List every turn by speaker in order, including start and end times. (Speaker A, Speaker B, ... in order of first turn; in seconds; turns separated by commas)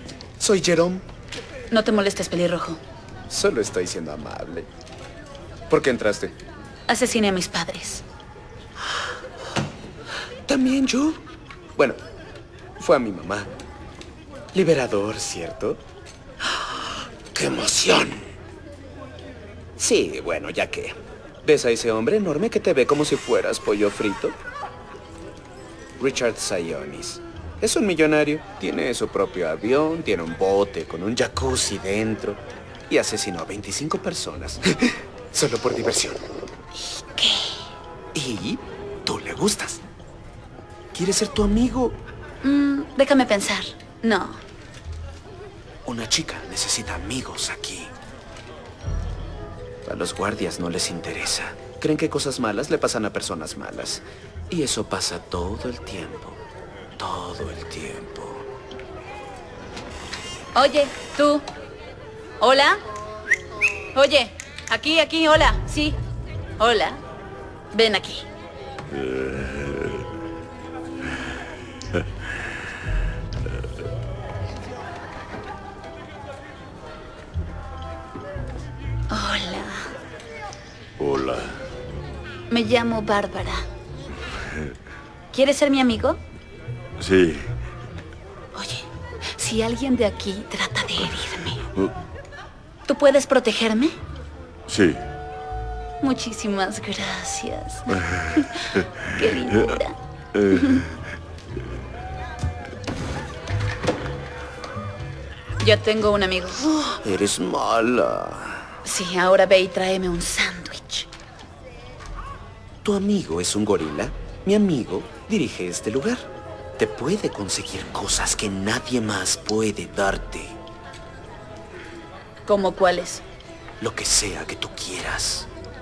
Speaker A: 0.4-1.0, Speaker B: 1.7-2.8, Speaker A: 3.3-4.7, Speaker A: 5.7-6.3, Speaker B: 6.9-8.0, Speaker A: 10.4-11.2, Speaker A: 12.8-13.5, Speaker A: 14.5-15.8, Speaker A: 16.5-18.3, Speaker A: 19.8-24.4, Speaker A: 26.0-36.2, Speaker B: 36.8-37.7, Speaker A: 38.1-39.8, Speaker A: 40.9-42.0, Speaker B: 42.4-44.4, Speaker A: 45.8-47.9, Speaker A: 49.8-56.4, Speaker A: 56.9-58.5, Speaker B: 60.5-61.5, Speaker B: 62.4-62.8, Speaker B: 63.9-66.0, Speaker B: 66.6-67.0, Speaker B: 67.7-68.2, Speaker C: 68.9-70.0, Speaker B: 79.1-79.9, Speaker C: 81.0-81.6, Speaker B: 82.5-83.7, Speaker B: 85.3-86.2, Speaker C: 87.0-87.5, Speaker B: 88.5-91.7, Speaker B: 92.8-94.0, Speaker C: 94.7-95.0, Speaker B: 96.0-100.9, Speaker B: 105.6-106.9, Speaker A: 107.0-108.8, Speaker B: 108.8-111.1, Speaker A: 112.8-120.6, Speaker B: 122.5-123.2, Speaker A: 123.8-125.5